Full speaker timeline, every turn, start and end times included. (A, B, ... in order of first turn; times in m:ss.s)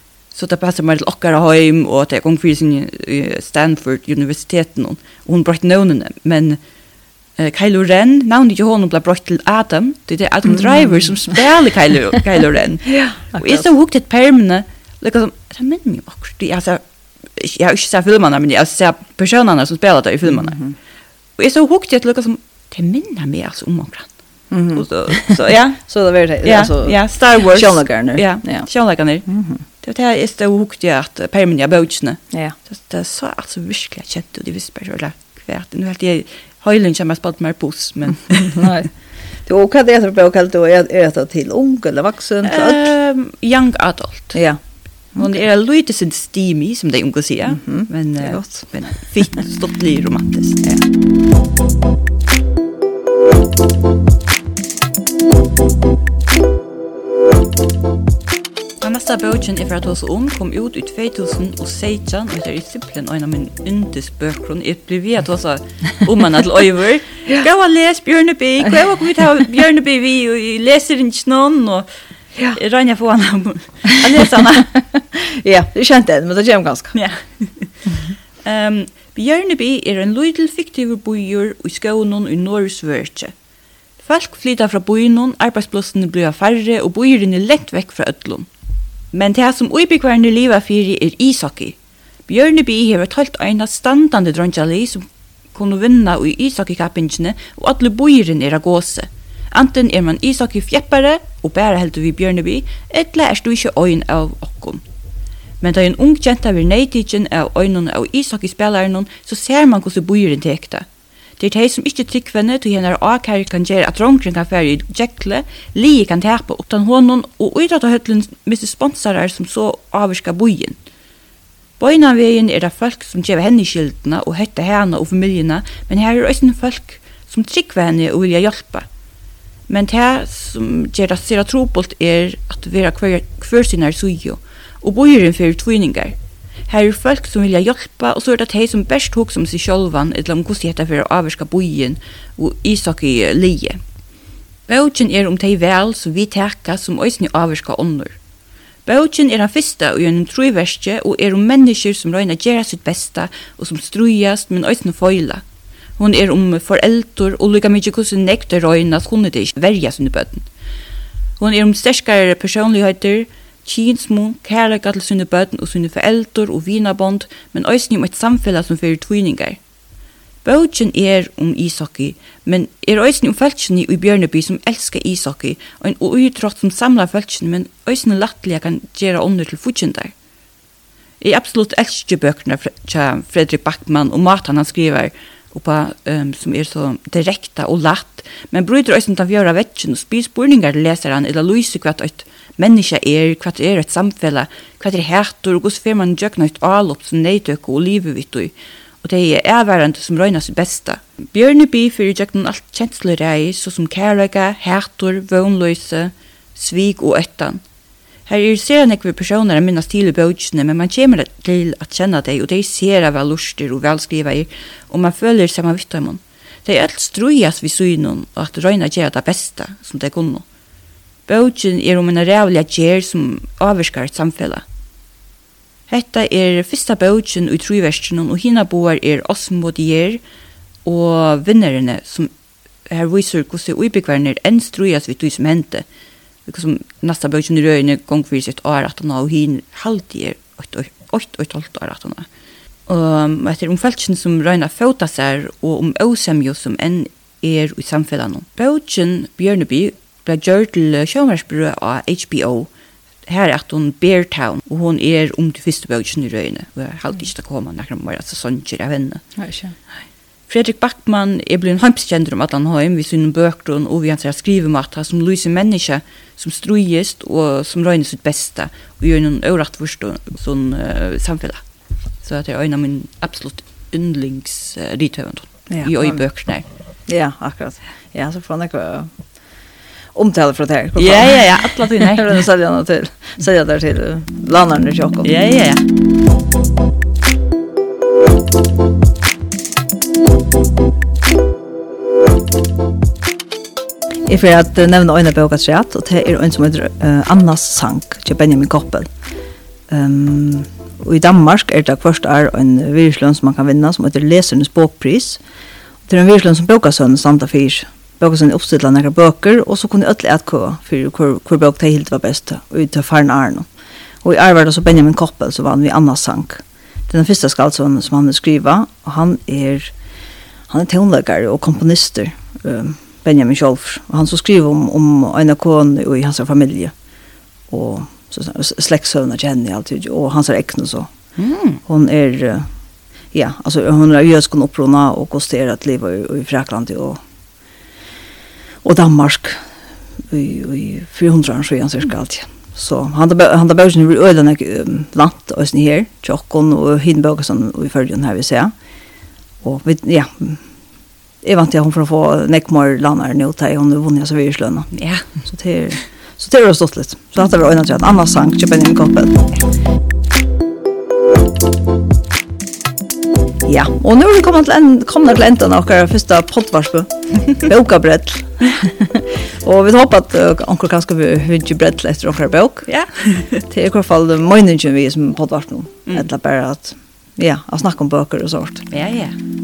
0:00.3-0:06.6 A
0:07.4-0:16.8 A
0:17.4-0:20.6 A
0:20.4-0:20.7 B
0:21.4-0:24.1 A
0:24.5-0:28.7 B
0:24.7-0:25.8 A
0:26.4-0:29.3 A
0:29.3-0:29.6 B
0:29.8-0:38.7 A
0:38.6-0:38.9 B
0:39.5-0:42.9 B
0:42.4-0:44.4 A
0:45.2-0:50.6 A
0:47.5-0:48.7 B
0:58.8-1:11.9 A
1:12.4-1:14.7 A
1:15.0-1:16.9 B
1:16.9-1:23.3 A
1:24.0-1:28.5 A
1:29.1-1:31.8 A
1:32.3-1:44.8 A
1:45.6-1:50.9 A
1:51.4-2:00.8 A
2:01.8-2:08.9 A
2:09.7-2:16.2 A
2:16.7-2:23.8 A
2:24.7-2:28.2 A
2:28.9-2:35.4 A
2:36.0-2:40.4 A
2:41.4-2:49.6 A
2:50.4-3:00.1 A
3:01.2-3:27.6 A
3:28.3-3:40.4 A
3:41.3-3:44.6 A
3:45.9-3:50.2 A
3:50.8-3:52.3 A
3:52.9-3:55.8 A
3:56.5-4:02.3 A
4:02.9-4:12.7 A
4:13.3-4:19.2 A
4:19.4-4:19.7 B
4:20.5-4:31.6 A
4:32.2-4:36.6 A
4:35.7-4:36.2 B
4:37.1-4:39.1 B
4:40.2-4:45.3 B
4:41.0-4:42.4 A
4:45.2-4:45.8 A
4:54.3-4:59.1 B
4:59.9-5:05.4 B
5:06.1-5:13.7 B
5:14.2-5:19.9 B
5:20.7-5:26.9 B
5:27.7-5:31.1 B
5:31.4-5:31.8 A
5:31.9-5:32.7 B
5:33.3-5:37.2 B
5:38.8-5:39.6 B
5:40.3-5:48.7 B
5:49.6-5:50.6 B
5:51.4-5:59.5 B
5:54.9-5:55.3 A
6:03.7-6:12.9 B
6:12.9-6:13.6 A
6:13.7-6:18.8 B
6:18.9-6:19.4 A